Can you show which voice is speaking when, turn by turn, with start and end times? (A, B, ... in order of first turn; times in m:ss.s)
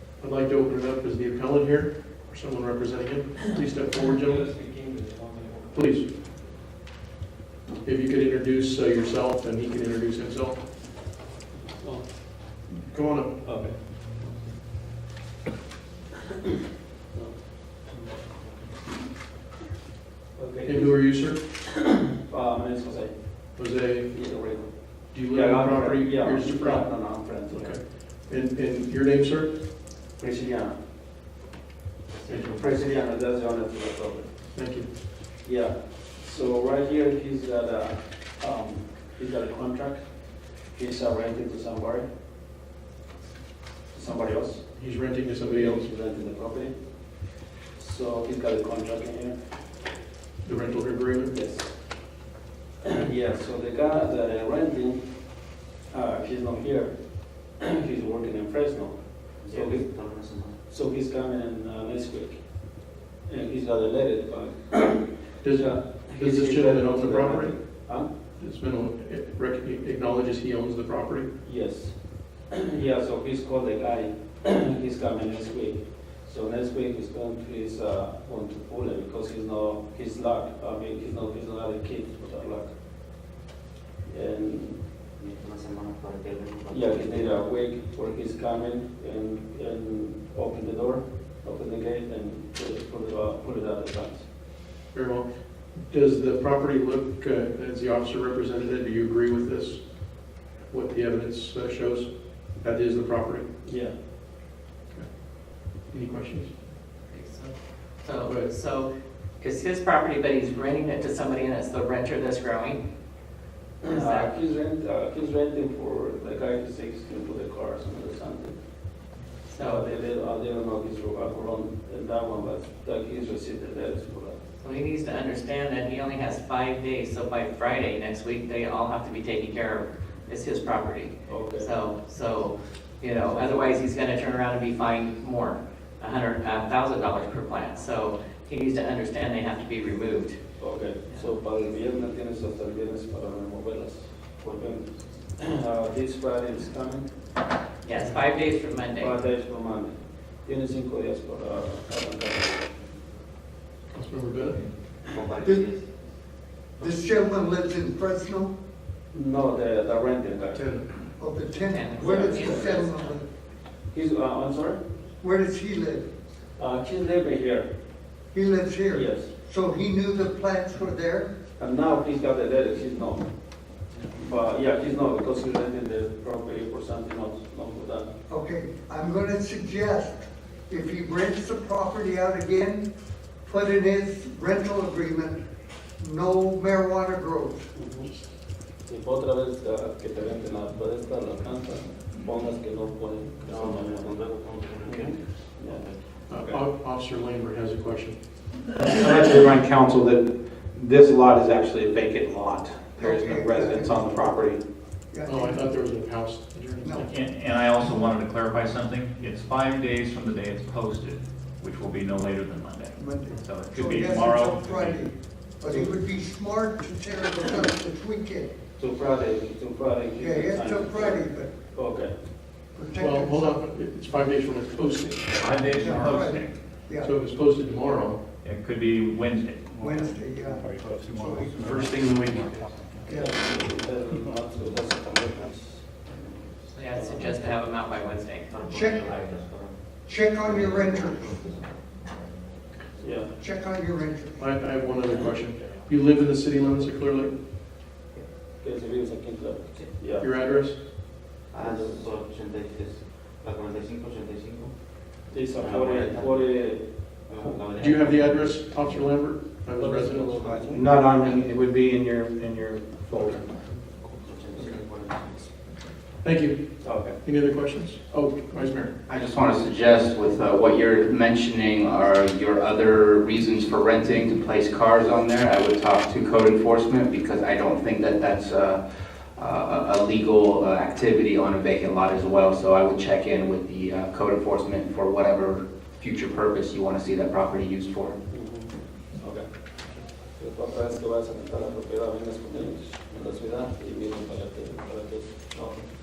0:00.2-0:04.5 A
0:04.3-0:05.4 B
0:05.7-0:06.1 A
0:07.8-0:10.7 A
0:12.7-0:13.7 A
0:13.4-0:13.7 B
0:20.4-0:21.2 B
0:20.6-0:21.4 A
0:22.3-0:23.5 B
0:23.5-0:24.3 A
0:24.1-0:27.8 B
0:25.1-0:29.6 A
0:30.2-0:30.8 B
0:32.1-0:33.0 C
0:32.3-0:32.6 A
0:32.5-0:34.3 B
0:34.5-0:34.9 A
0:35.4-0:40.0 B
0:40.7-0:42.1 B
0:43.9-0:44.8 B
0:44.7-0:45.9 A
0:45.4-0:46.7 B
0:47.7-0:49.4 B
0:50.4-0:51.3 A
0:51.3-0:51.7 B
0:52.8-0:55.1 B
0:55.9-0:59.8 B
0:59.4-1:00.6 C
1:00.7-1:02.4 B
1:03.3-1:08.1 B
1:05.4-1:07.8 A
1:08.4-1:11.3 A
1:11.4-1:12.0 B
1:12.5-1:22.7 B
1:24.1-1:24.8 B
1:25.2-1:27.5 C
1:26.7-1:34.2 B
1:34.9-1:43.5 A
1:43.6-1:43.9 B
1:44.9-1:46.5 A
1:47.1-1:52.8 D
1:48.2-1:48.5 A
1:53.8-1:58.6 B
1:53.9-1:54.4 D
1:59.5-1:59.9 D
1:59.6-2:04.4 B
2:04.6-2:20.4 D
2:11.2-2:11.7 B
2:20.6-2:27.1 B
2:21.7-2:22.1 C
2:24.4-2:25.4 C
2:27.8-2:29.2 D
2:29.0-2:32.6 B
2:33.9-2:34.7 A
2:35.1-2:36.2 C
2:35.4-2:35.7 E
2:36.8-2:38.5 E
2:39.1-2:40.6 B
2:40.5-2:40.9 A
2:41.2-2:43.3 E
2:41.6-2:43.2 D
2:42.3-2:42.8 B
2:43.9-2:44.8 B
2:45.2-2:46.1 E
2:46.6-2:47.7 B
2:48.3-2:51.4 E
2:48.9-2:49.3 B
2:51.6-2:53.3 B
2:54.1-2:58.1 B
2:58.3-3:05.5 E
3:06.0-3:07.7 E
3:07.7-3:08.1 B
3:08.8-3:14.1 B
3:12.3-3:12.6 C
3:13.3-3:16.4 C
3:14.8-3:16.6 B
3:16.3-3:18.2 A
3:18.8-3:24.6 F
3:23.0-3:24.3 E
3:25.1-3:25.7 E
3:25.2-3:27.1 A
3:26.8-3:27.1 E
3:26.9-3:35.1 G
3:32.9-3:38.5 E
3:38.8-3:42.1 B
3:40.2-3:41.7 E
3:42.7-3:43.8 E
3:42.9-3:45.9 A
3:45.4-3:46.7 G
3:45.6-3:47.1 E
3:47.0-3:48.2 A
3:48.4-3:49.8 G
3:49.8-3:51.7 E
3:50.6-3:52.7 G
3:51.7-3:52.5 B
3:53.0-3:53.5 E
3:53.1-3:55.8 B
3:53.5-3:53.9 C
3:54.6-3:55.2 C
3:56.0-3:56.4 C
3:56.7-3:58.5 D
3:56.9-3:57.5 B
3:57.1-3:57.3 C
3:58.5-3:59.9 C
3:58.6-3:59.2 E
4:00.0-4:01.5 E
4:00.4-4:02.2 C
4:03.0-4:03.3 B
4:03.4-4:04.6 E
4:04.4-4:07.4 A
4:08.6-4:10.3 B
4:10.0-4:10.8 A
4:11.5-4:14.8 C
4:11.6-4:12.0 B
4:15.3-4:16.9 B
4:15.5-4:16.7 C
4:17.2-4:19.1 C
4:17.7-4:20.4 A
4:19.8-4:20.8 B
4:20.3-4:21.3 C
4:20.7-4:24.1 F
4:24.2-4:25.5 C
4:26.2-4:28.9 A
4:26.8-4:27.2 B
4:29.1-4:48.2 H
4:48.3-4:49.5 B
4:50.4-4:55.5 B
4:53.3-4:53.7 C
4:55.5-4:55.8 C